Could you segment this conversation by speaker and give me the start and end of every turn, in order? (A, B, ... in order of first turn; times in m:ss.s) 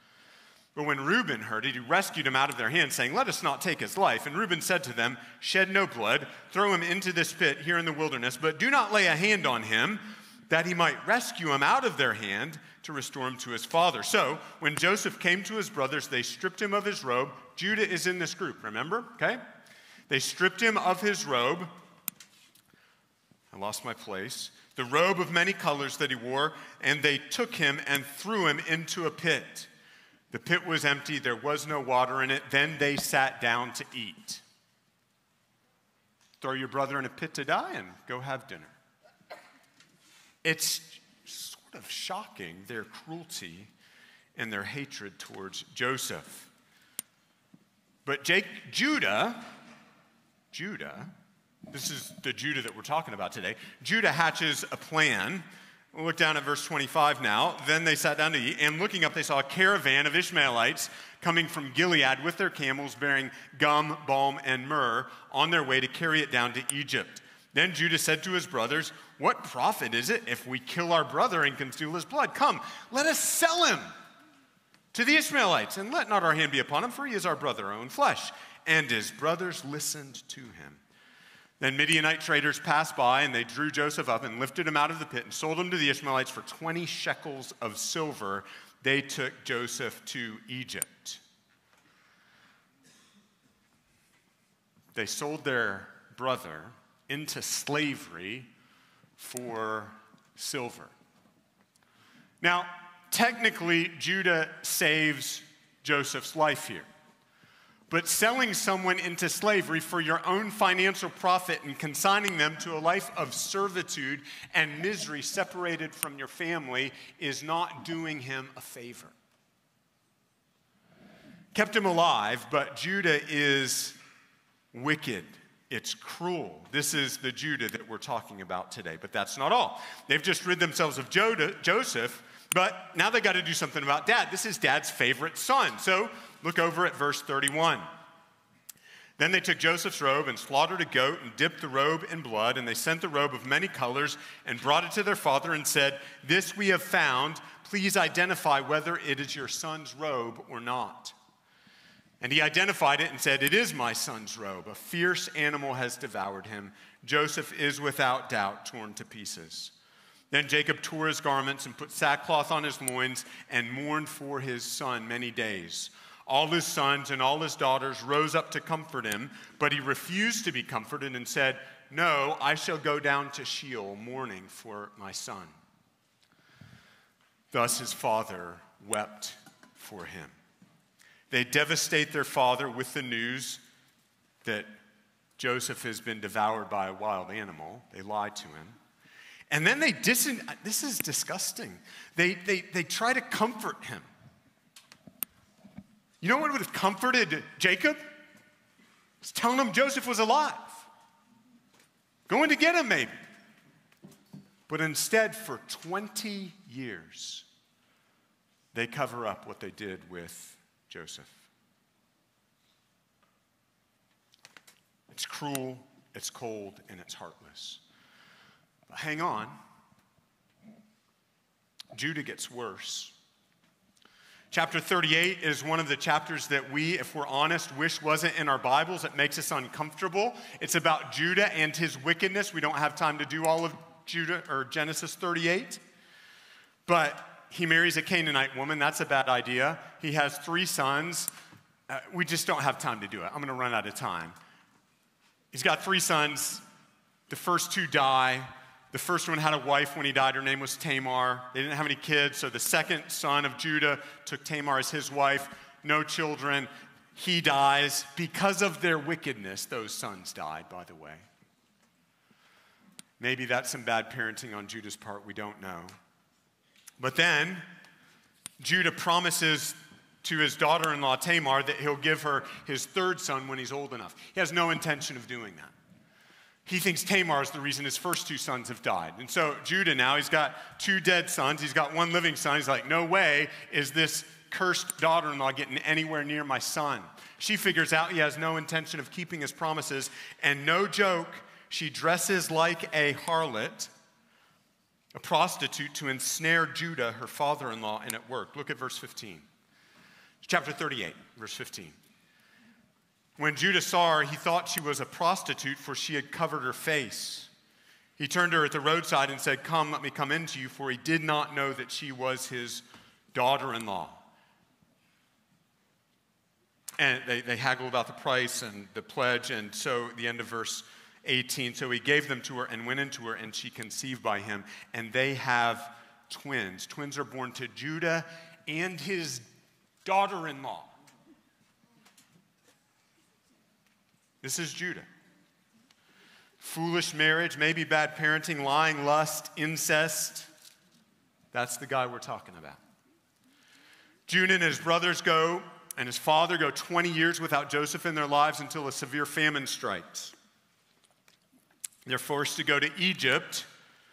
0:00.7-0:19.4 A
0:20.1-0:21.7 A
0:23.5-0:29.7 A
0:30.3-0:34.4 A
0:36.4-0:38.7 A
0:40.4-0:43.7 A
0:44.4-0:46.5 A
0:48.0-0:49.5 A
0:50.5-0:51.1 A
0:51.7-1:13.9 A
1:14.9-1:20.8 A
1:21.6-1:31.2 A
1:34.9-1:38.5 A
1:39.2-1:40.9 A
1:42.4-1:46.8 A
1:47.9-1:59.1 A
2:01.5-2:04.0 A
2:04.7-2:17.8 A
2:19.2-2:31.1 A
2:32.2-2:39.7 A
2:40.3-2:55.5 A
2:57.5-3:00.3 A
3:01.3-3:03.6 A
3:04.4-3:04.7 A
3:05.4-3:08.7 A
3:09.5-3:14.0 A
3:16.2-3:18.0 A
3:19.2-3:20.8 A
3:22.3-3:23.1 A
3:24.7-3:27.4 A
3:28.7-3:31.3 A
3:35.1-3:37.8 A
3:38.9-3:39.5 A
3:41.9-3:43.1 A
3:44.5-3:55.8 A
3:56.8-4:01.3 A
4:01.9-4:04.4 A
4:05.5-4:06.6 A
4:07.3-4:21.2 A
4:23.2-4:25.9 A
4:27.0-4:27.6 A
4:28.6-4:35.7 A
4:36.6-4:53.9 A
4:55.1-4:59.4 A
5:00.4-5:01.9 A
5:03.4-5:07.5 A
5:08.2-5:14.2 A
5:17.0-5:29.4 A
5:30.0-5:30.9 A
5:34.4-5:35.1 A
5:36.6-5:40.5 A
5:41.5-5:42.8 A
5:44.3-5:50.3 A
5:52.0-5:53.7 A